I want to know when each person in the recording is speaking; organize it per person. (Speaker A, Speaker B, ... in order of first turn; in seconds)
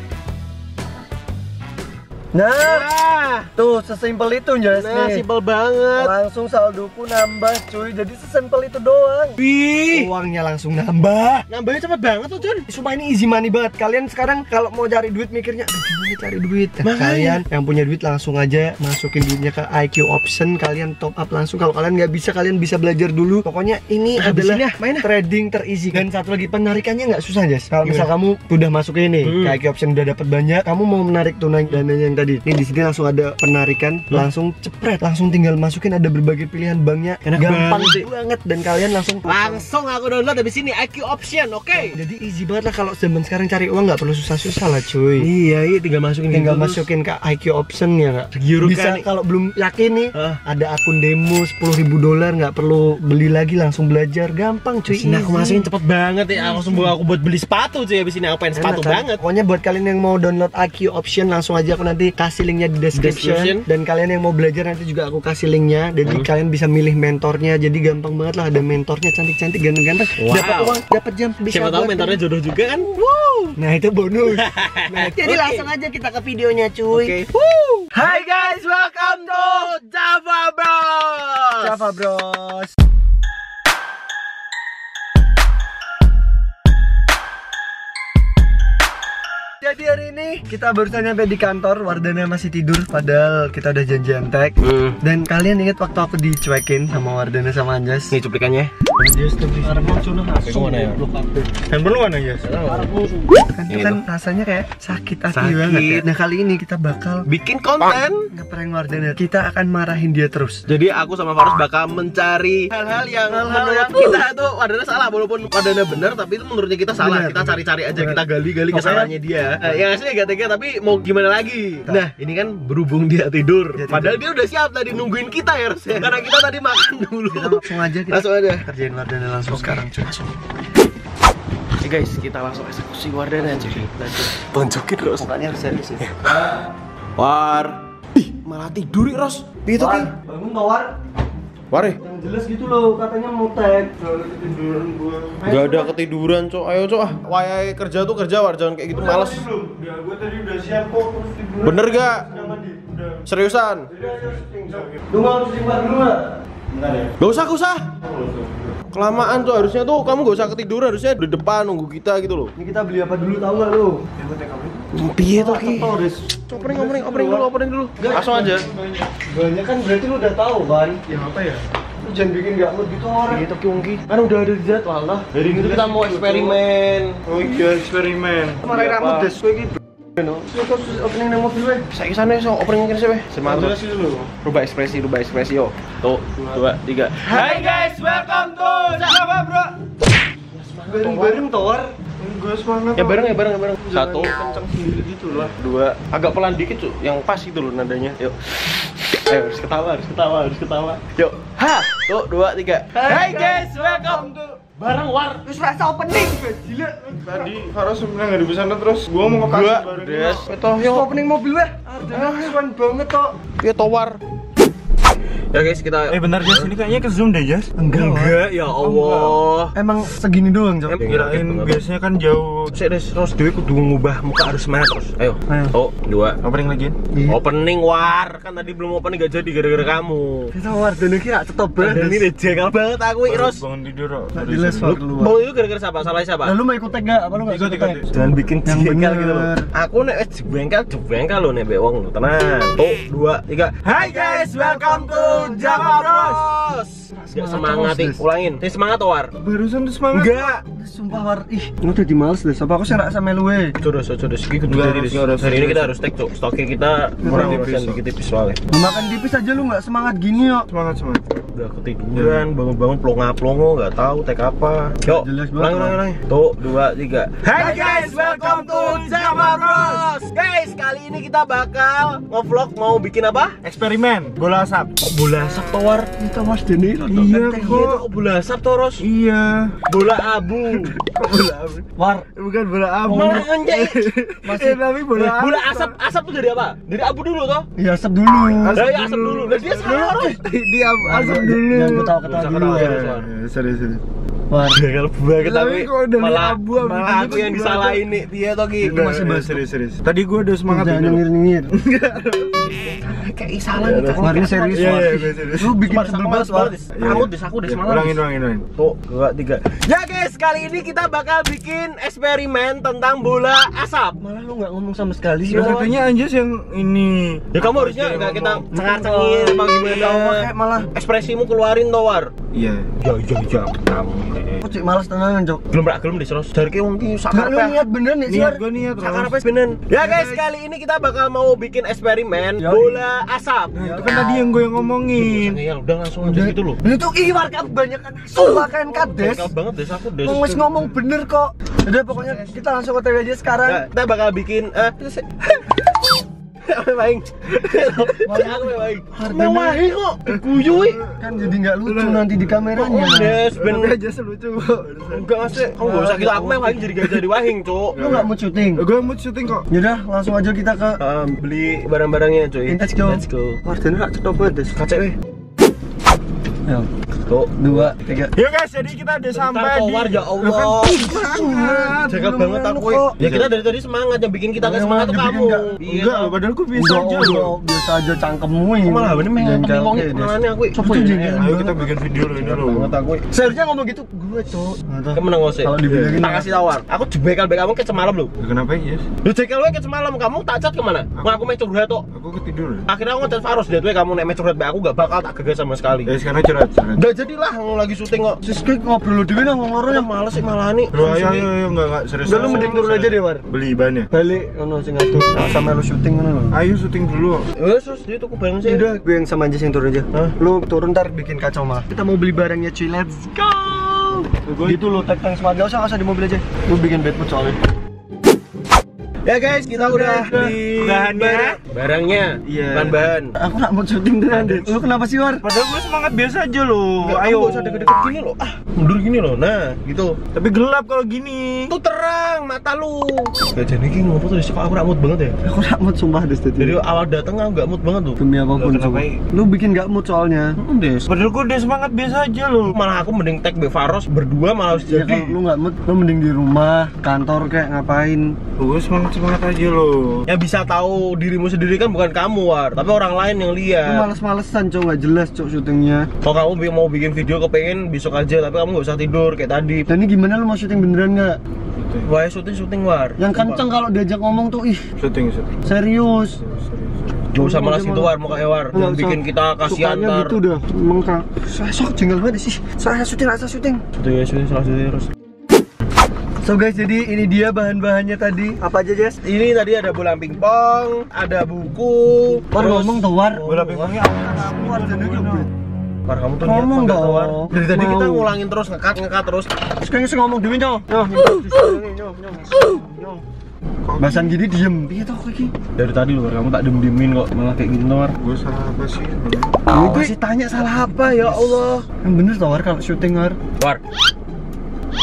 Speaker A: 2.3-2.9, 3.6-5.2, 6.0-9.4, 9.9-11.5, 12.7-39.7, 41.7-45.3, 46.3-55.7, 56.3-56.9, 58.6-72.2, 73.6-77.2, 77.9-79.7, 81.6-82.7, 89.6-98.2, 99.6-101.5, 102.7-107.3, 108.3-110.7, 113.3-114.2, 117.0-119.8, 123.8-124.2, 125.9-126.2, 127.3-130.1, 133.4-133.9, 135.2-136.1, 139.7-140.9, 142.0-143.9, 145.4-145.9, 148.9-153.1, 153.9-156.3, 162.6-164.1, 165.3-168.7, 169.3-171.0, 172.0-173.5, 175.5-176.6, 178.6-181.9, 183.4-184.3, 187.2-187.7, 190.9-191.9, 193.9-195.5, 202.9-204.5, 205.4-207.5, 210.8-213.4, 217.8-218.4, 219.7-221.0, 225.5-225.7, 227.1-227.4, 230.5-232.3, 234.3-235.4, 236.4-238.1, 238.7-239.7, 247.2-248.2, 250.7-253.8, 257.2-257.7, 258.7-260.7, 265.0-266.0, 276.2-277.9, 282.0-282.3, 283.1-283.4, 284.4-285.0, 287.8-288.8, 291.0-293.1, 294.5-294.8, 298.8-299.6, 300.7-301.7, 304.2-306.8, 314.2-315.9, 318.7-320.9, 324.6-325.6, 327.3-328.6, 330.0-330.4, 332.6-333.0, 333.8-334.5, 336.2-339.5, 340.2-343.8, 348.1-349.8, 351.2-353.4, 355.8-356.9, 358.0-358.9, 359.7-361.0, 362.7-364.8, 367.6-368.3, 370.8-373.2, 374.6-375.8, 376.7-381.8, 383.3-386.5, 398.4-400.1, 402.2-403.4, 404.1-406.6, 408.6-417.6, 419.7-420.5, 423.4-425.4, 435.4-436.8, 438.2-440.6, 444.8-448.4, 453.8-456.1, 459.9-461.4, 463.2-464.8, 465.6-466.4, 467.4-468.2, 468.7-473.8, 476.4-479.2, 482.5-483.5, 484.0-485.5, 486.4-488.3, 489.8-493.2, 494.0-495.5, 499.7-503.4
Speaker B: 2.6-3.5, 4.7-6.1, 9.4-10.1, 11.5-12.7, 16.8-17.4, 24.1-25.1, 29.2-29.6, 37.3-38.1, 39.3-42.0, 45.2-46.9, 48.3-49.1, 50.1-50.4, 54.8-59.2, 62.9-63.6, 70.2-70.8, 71.5-73.6, 74.3-75.7, 76.9-81.9, 94.6-95.0, 98.1-98.7, 100.4-101.2, 102.4-102.9, 103.7-104.0, 105.3-106.1, 107.2-108.3, 110.7-128.7, 129.5-130.3, 131.8-135.3, 136.0-136.7, 137.2-140.1, 141.7-142.0, 145.5-149.5, 151.6-152.3, 153.2-153.9, 157.2-157.9, 158.9-162.5, 164.9-166.0, 166.5-168.7, 173.3-177.2, 178.6-179.3, 181.9-183.8, 184.4-189.4, 190.1-191.5, 193.0-194.4, 195.3-198.4, 199.2-205.4, 209.4-211.1, 212.1-212.6, 213.6-214.2, 215.5-216.7, 217.9-219.7, 220.9-221.8, 222.7-226.4, 227.3-230.5, 231.8-233.6, 235.0-236.6, 238.1-249.3, 250.1-250.6, 253.8-258.6, 261.5-273.6, 275.0-276.1, 277.6-279.0, 279.9-280.9, 283.1-284.1, 285.1-287.7, 288.7-290.4, 292.2-293.3, 294.7-299.0, 302.7-305.2, 305.8-308.2, 308.8-314.2, 315.5-315.9, 317.5-322.3, 323.0-324.6, 325.7-327.8, 329.0-333.8, 335.1-336.8, 338.4-340.7, 343.6-351.0, 352.8-354.0, 355.1-358.0, 361.0-363.6, 364.8-365.2, 367.3-367.9, 369.3-371.1, 372.0-376.4, 378.8-381.7, 382.2-383.3, 385.1-388.3, 389.2-392.1, 392.9-396.1, 397.0-398.4, 399.9-401.5, 402.3-403.0, 407.6-408.9, 419.2-423.4, 427.0-430.2, 431.7-435.4, 436.6-438.2, 440.6-441.1, 442.7-445.3, 450.3-454.1, 456.2-459.9, 462.0-463.2, 467.3-470.4, 474.0-475.1, 479.2-484.0, 486.1-489.5, 491.2-491.6, 495.8-498.2, 499.8-501.9
Speaker C: 99.0-100.0, 101.7-102.5, 144.0-145.5, 149.6-150.9, 152.9-153.2, 154.0-155.0, 156.7-157.1, 164.2-164.9, 168.5-169.1, 171.1-171.6, 177.3-178.6, 187.3-189.7, 192.2-193.4, 194.1-195.5, 207.3-210.5, 216.1-217.7, 218.7-219.4, 221.1-222.7, 226.4-227.0, 233.2-235.0, 237.5-238.3, 243.8-246.5, 249.4-250.5, 254.7-255.9, 257.2-258.0, 260.7-261.3, 262.1-262.4, 267.4-270.1, 273.6-274.9, 277.1-278.1, 279.0-279.8, 280.8-285.9, 288.4-292.2, 292.7-294.0, 295.4-298.1, 298.8-302.7, 303.8-305.8, 306.9-308.7, 315.5-318.6, 322.5-322.9, 328.3-329.4, 333.8-335.6, 350.3-352.7, 353.5-355.4, 357.0-359.7, 368.4-372.1, 373.2-373.5, 375.8-377.6, 381.4-382.9, 385.9-386.2, 388.4-389.1, 391.2-391.5, 392.1-392.9, 396.1-397.0, 400.9-404.1, 405.1-405.4, 406.5-407.5, 414.4-414.8, 420.0-421.6, 422.4-423.0, 424.3-424.8, 425.4-428.0, 430.3-431.8, 438.6-439.2, 441.1-442.8, 445.1-445.3, 448.6-450.3, 461.8-462.1, 463.3-463.6, 465.0-465.6, 466.4-467.3, 483.4-485.5, 493.8-494.4, 498.2-499.6